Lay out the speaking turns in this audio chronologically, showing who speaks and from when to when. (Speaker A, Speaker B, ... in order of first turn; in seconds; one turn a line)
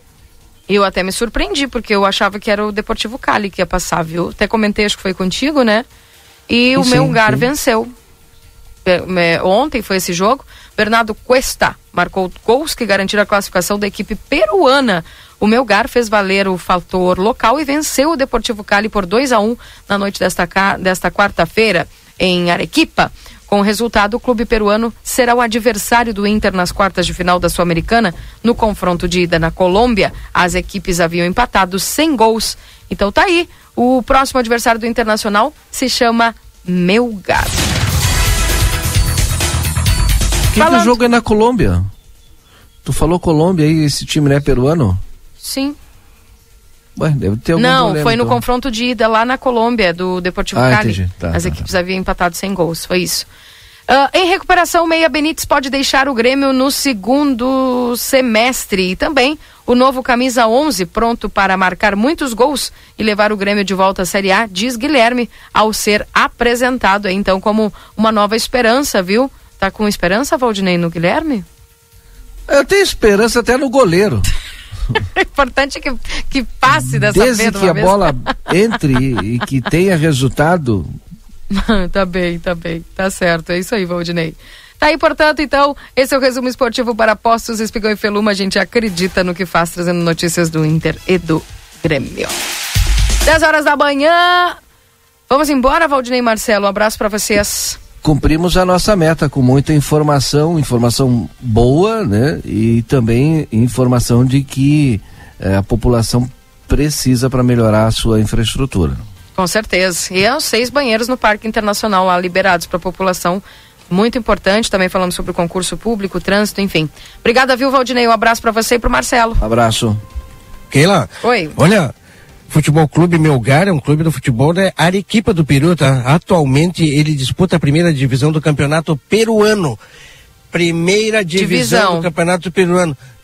Speaker A: 0.7-5.8
Speaker A: 6.5-7.9
Speaker B: 6.7-7.5
Speaker A: 8.8-37.6
Speaker B: 40.5-41.9
Speaker A: 40.6-41.0
Speaker B: 42.8-45.0
Speaker A: 45.4-45.8
Speaker B: 47.0-48.4
Speaker A: 47.5-53.3
Speaker B: 50.5-51.7
Speaker A: 53.9-71.4
Speaker B: 72.5-74.3
Speaker A: 74.9-78.1
Speaker B: 76.7-80.9
Speaker A: 81.5-92.3
Speaker A: 93.2-94.6
Speaker A: 95.3-97.8
Speaker B: 98.0-109.0
Speaker A: 109.3-119.4
Speaker B: 119.4-120.0
Speaker C: 120.7-121.9
Speaker A: 121.2-121.6
Speaker C: 122.5-129.8
Speaker C: 130.5-133.0
Speaker A: 131.3-132.1